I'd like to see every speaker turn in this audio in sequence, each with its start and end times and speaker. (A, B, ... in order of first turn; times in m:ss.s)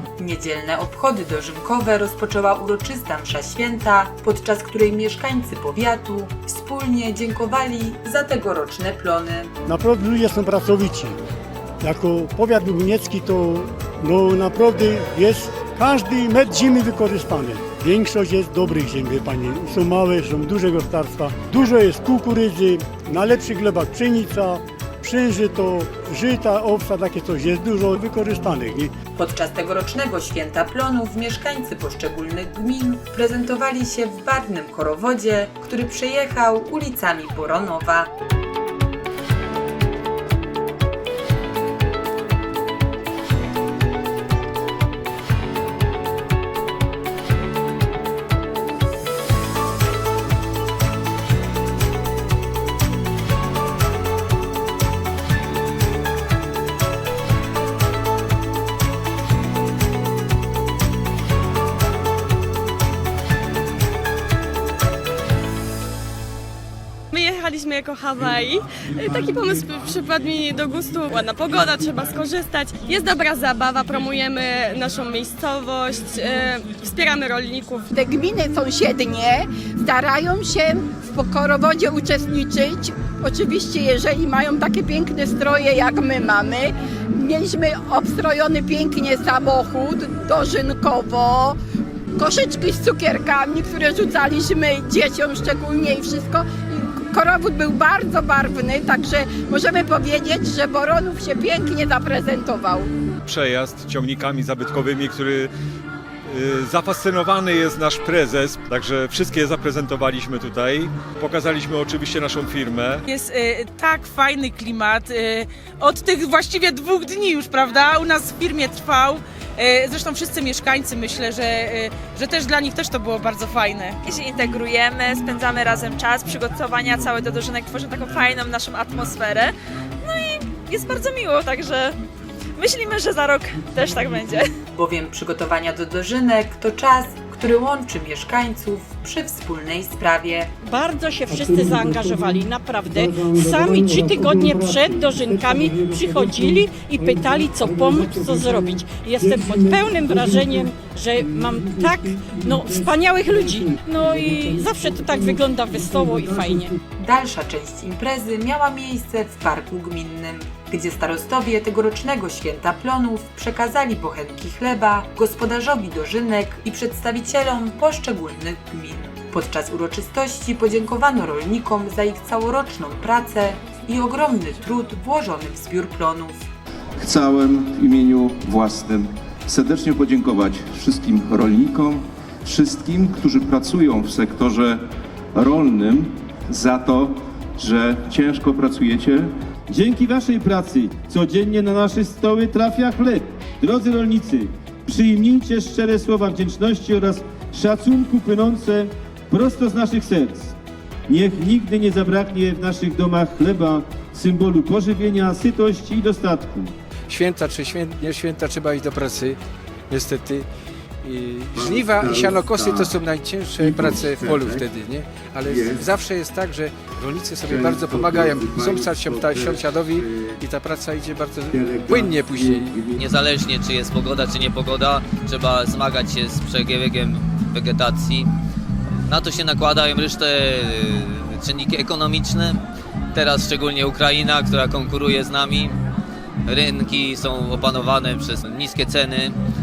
0:00.2-0:09.5 A
0:09.6-0:11.1 B
0:11.8-0:28.9 B
0:29.2-0:38.1 A
1:07.1-1:17.9 C
1:17.9-1:31.6 D
1:32.2-1:42.9 D
1:43.2-1:45.5 E
1:46.3-1:53.0 E
1:53.1-2:04.0 F
2:04.0-2:12.0 G
2:12.6-2:14.5 G
2:14.7-2:20.5 A
2:20.6-2:36.7 H
2:21.3-2:36.7 B
2:37.0-2:56.4 A
2:57.0-3:04.8 I
3:05.3-3:09.3 I
3:09.7-3:20.5 J
3:21.1-3:26.7 J
3:27.1-3:29.4 K
3:29.9-3:30.4 K
3:31.0-3:42.8 K
3:31.6-3:32.9 I
3:33.6-3:34.6 I
3:37.5-3:39.9 I
3:41.7-3:43.0 I
3:43.0-3:48.3 L
3:49.1-3:52.6 L
3:53.1-3:55.7 L
3:56.5-3:59.3 L